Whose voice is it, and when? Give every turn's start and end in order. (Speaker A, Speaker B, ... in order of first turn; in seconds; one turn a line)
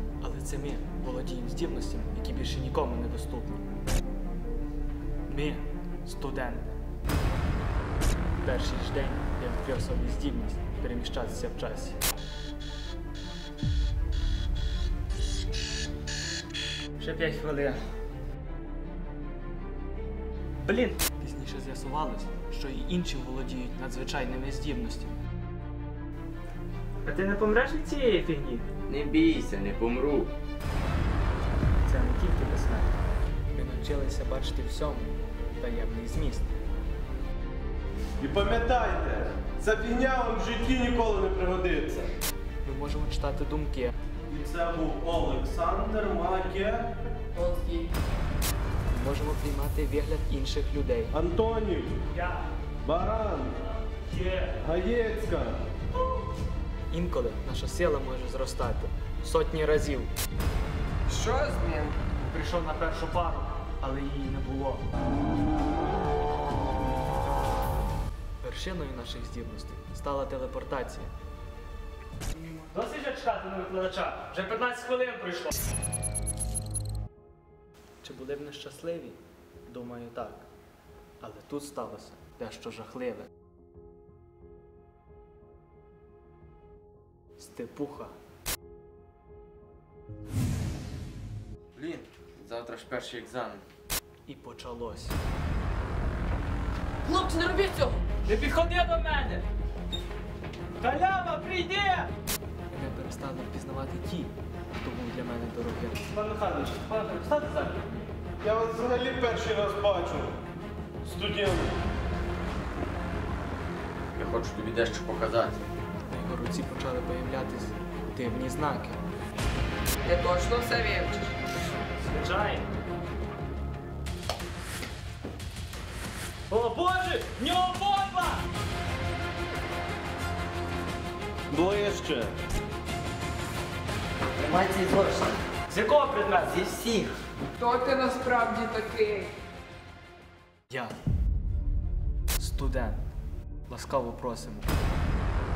Speaker A: 0.2-3.7
Speaker A: 5.3-6.7
Speaker A: 8.4-12.0
Speaker A: 17.0-17.8
Speaker A: 20.6-25.2
Speaker A: 27.0-28.7
Speaker B: 28.9-30.3
Speaker A: 31.8-33.0
Speaker A: 33.5-36.5
Speaker C: 38.2-42.1
Speaker A: 42.6-43.9
Speaker C: 44.3-46.9
Speaker A: 47.5-47.8
Speaker A: 48.9-51.1
Speaker C: 51.1-52.0
Speaker A: 52.1-52.4
Speaker C: 52.8-53.6
Speaker A: 54.1-54.6
Speaker C: 54.6-55.6
Speaker A: 56.9-60.1
Speaker D: 61.1-62.0
Speaker A: 62.3-64.8
Speaker A: 68.4-71.1
Speaker A: 72.3-75.6
Speaker A: 78.0-80.5
Speaker A: 81.2-83.3
Speaker A: 87.4-88.2
Speaker B: 91.8-93.6
Speaker A: 94.3-95.2
Speaker A: 97.1-99.4
Speaker A: 100.8-102.1
Speaker A: 102.7-108.0
Speaker C: 108.4-110.3
Speaker C: 111.0-111.8
Speaker B: 114.1-115.6
Speaker A: 116.1-119.0
Speaker D: 120.0-121.3
Speaker A: 122.0-122.6
Speaker A: 126.5-128.4
Speaker C: 131.5-132.3
Speaker B: 134.4-135.4
Speaker A: 135.7-136.6
Speaker B: 136.7-137.1
Speaker D: 137.6-139.3
Speaker A: 140.7-140.9
Speaker A: 142.3-143.1
Speaker A: 143.7-144.7